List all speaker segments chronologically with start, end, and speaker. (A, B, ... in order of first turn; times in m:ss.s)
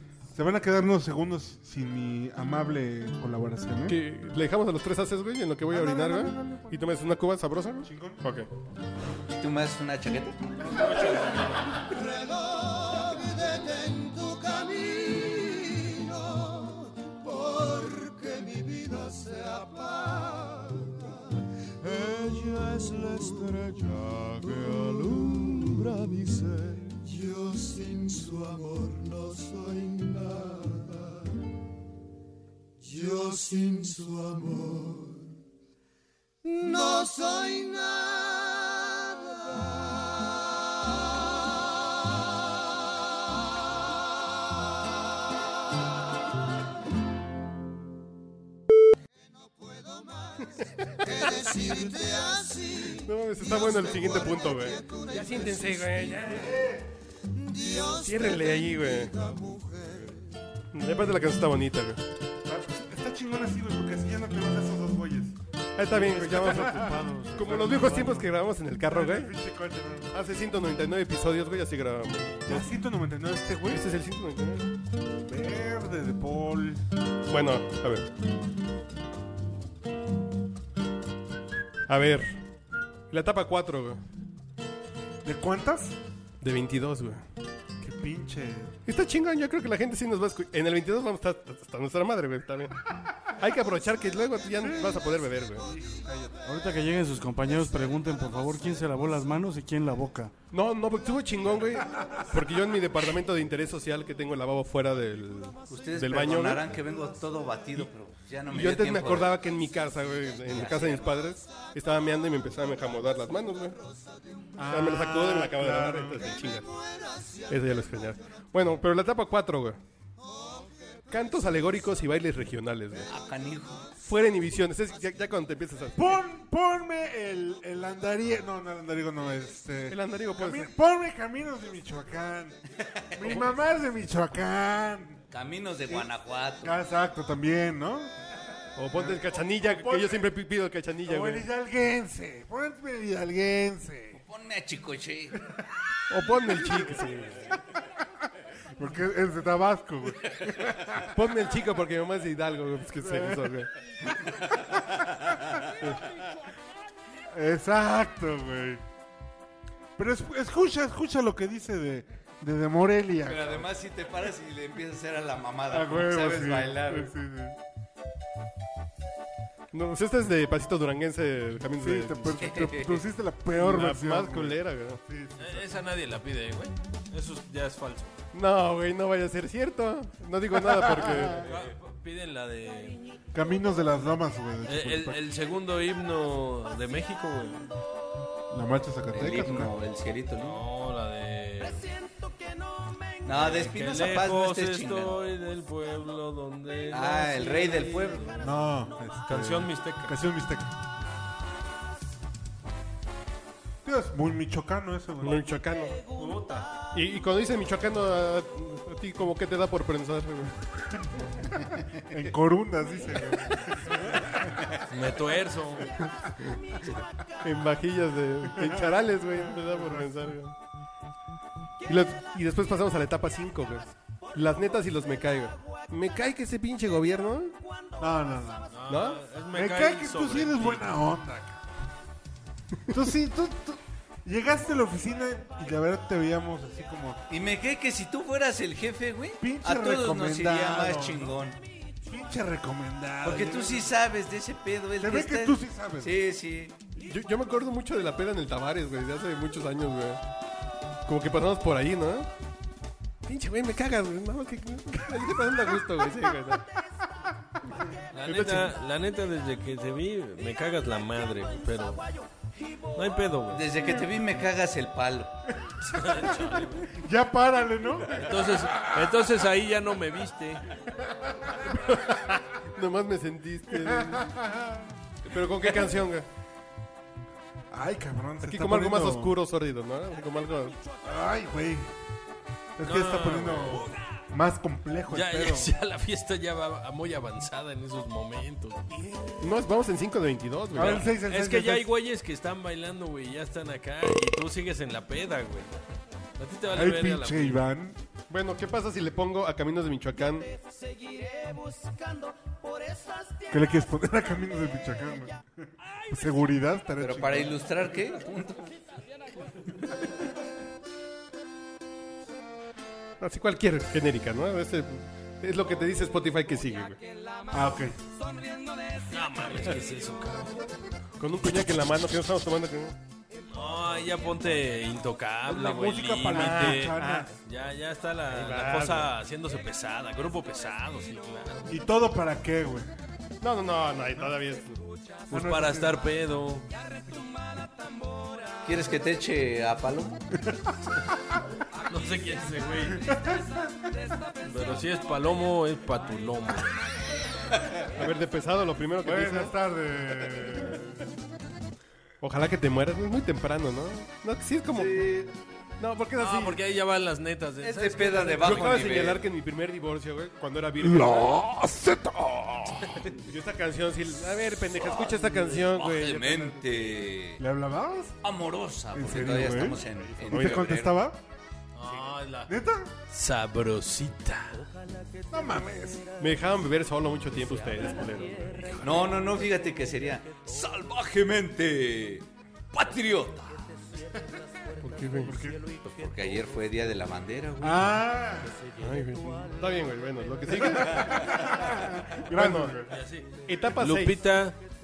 0:00.3-0:04.0 A
0:03.9-0:08.5 B
0:05.7-0:06.9 A
0:07.8-0:08.2 A
0:09.3-0:10.5 C
0:10.6-0:11.8 D
0:12.4-0:21.1 E
0:21.8-0:31.2 E
0:32.8-0:35.3 E
0:36.4-0:39.5 E
0:50.4-0:51.7 B
0:52.7-0:56.7 B
0:56.2-0:56.9 A
0:57.9-0:59.1 B
1:00.7-1:02.0 B
1:02.4-1:05.4 A
1:05.8-1:09.3 B
1:05.9-1:08.3 A
1:07.0-1:08.2 E
1:08.8-1:10.1 A
1:10.1-1:12.7 B
1:12.4-1:13.9 A
1:13.7-1:14.7 B
1:15.2-1:16.8 A
1:17.3-1:18.1 B
1:21.9-1:22.4 B
1:23.1-1:24.0 B
1:25.2-1:26.0 A
1:26.4-1:27.2 B
1:27.8-1:28.8 A
1:28.9-1:32.8 B
1:33.4-1:35.7 B
1:34.6-1:36.5 A
1:36.5-1:40.1 F
1:36.8-1:38.2 E
1:37.5-1:37.8 A
1:39.0-1:40.3 E
1:40.5-1:46.7 B
1:42.0-1:42.2 A
1:45.7-1:49.4 C
1:48.5-1:53.8 B
1:50.5-1:51.1 C
1:54.6-1:56.3 A
1:54.7-1:56.7 B
1:57.5-1:59.8 B
2:01.1-2:03.1 B
2:03.1-2:03.9 C
2:04.0-2:06.1 B
2:06.0-2:12.6 A
2:09.9-2:10.7 B
2:13.1-2:15.2 A
2:15.3-2:16.7 C
2:16.6-2:18.1 A
2:18.8-2:21.4 B
2:18.9-2:20.3 A
2:21.0-2:24.2 A
2:24.3-2:25.4 C
2:26.1-2:27.6 B
2:26.6-2:27.0 A
2:28.8-2:31.1 A
2:31.1-2:33.7 B
2:33.0-2:33.5 A
2:37.3-2:38.8 A
2:40.0-2:43.7 A
2:43.3-2:47.1 C
2:45.7-2:47.6 A
2:49.7-2:52.4 B
2:51.8-2:55.7 A
2:52.4-2:53.1 C
2:53.5-2:55.0 B
2:55.4-2:58.1 D
2:58.3-3:01.5 B
3:01.4-3:03.0 D
3:03.3-3:05.2 A
3:04.7-3:07.7 D
3:08.5-3:09.7 A
3:09.1-3:10.6 C
3:10.4-3:11.9 D
3:13.2-3:15.2 C
3:13.3-3:18.4 D
3:16.9-3:18.4 C
3:18.4-3:20.7 A
3:19.3-3:20.2 D
3:23.8-3:25.5 A
3:25.2-3:26.0 B
3:26.2-3:26.7 D
3:26.9-3:30.6 B
3:32.1-3:34.4 A
3:34.9-3:36.0 D
3:37.4-3:40.6 B
3:38.6-3:40.2 A
3:41.9-3:47.6 B
3:48.0-3:48.8 A
3:48.7-3:50.9 D
3:48.9-3:49.2 B
3:49.5-3:51.6 A
3:52.9-3:57.2 A
3:57.3-4:01.6 C
3:59.4-4:01.3 A
4:02.1-4:03.9 A
4:03.2-4:06.8 C
4:05.0-4:06.1 A
4:07.0-4:10.2 B
4:11.1-4:12.3 B
4:13.2-4:16.6 B
4:18.1-4:22.1 D
4:18.2-4:18.7 B
4:23.0-4:23.6 D
4:23.5-4:25.4 C
4:25.8-4:26.9 D
4:26.9-4:28.2 A
4:28.2-4:30.6 D
4:31.5-4:34.3 B
4:33.7-4:34.8 A
4:35.3-4:36.3 B
4:37.7-4:39.4 A
4:38.4-4:40.8 B
4:41.0-4:41.9 A
4:42.8-4:45.7 A
4:42.8-4:44.0 D
4:45.1-4:49.3 D
4:49.4-4:51.1 B
4:50.7-4:51.9 A
4:50.8-4:55.7 D
4:56.4-4:57.6 D
4:56.7-4:58.0 A
4:58.3-5:00.5 B
5:03.5-5:05.4 A
5:06.1-5:07.6 A
5:07.0-5:08.7 C
5:13.2-5:17.0 B
5:17.5-5:18.0 A
5:19.1-5:20.6 D
5:21.2-5:23.0 B
5:23.5-5:31.8 D
5:25.5-5:27.3 A
5:26.2-5:27.3 B
5:28.3-5:29.1 B
5:31.7-5:32.9 A
5:33.4-5:34.8 B
5:35.3-5:36.0 A
5:35.3-5:36.7 D
5:38.6-5:40.2 C
5:41.9-5:43.2 D
5:43.1-5:43.5 A
5:44.4-5:46.7 D
5:48.0-5:49.6 B
5:49.0-5:51.1 A
5:52.2-5:55.2 B
5:54.7-5:55.3 C
5:55.8-5:56.6 B
5:56.2-5:59.0 D
5:57.6-5:59.3 C
5:58.4-6:01.9 B
6:00.8-6:02.7 A
6:03.2-6:06.4 B
6:04.7-6:07.4 C
6:06.3-6:06.7 D
6:07.4-6:08.2 A
6:08.2-6:11.0 C
6:08.9-6:11.2 A
6:10.3-6:10.6 B
6:11.8-6:12.5 D
6:12.5-6:12.9 A
6:13.1-6:14.6 D
6:15.3-6:16.0 A
6:16.2-6:18.8 B
6:18.8-6:23.7 C
6:24.8-6:25.4 B
6:25.2-6:25.6 A
6:25.8-6:28.0 C
6:27.6-6:28.6 A
6:28.8-6:31.3 B
6:30.6-6:32.9 A
6:32.3-6:32.8 B
6:32.9-6:34.6 D
6:33.5-6:34.2 B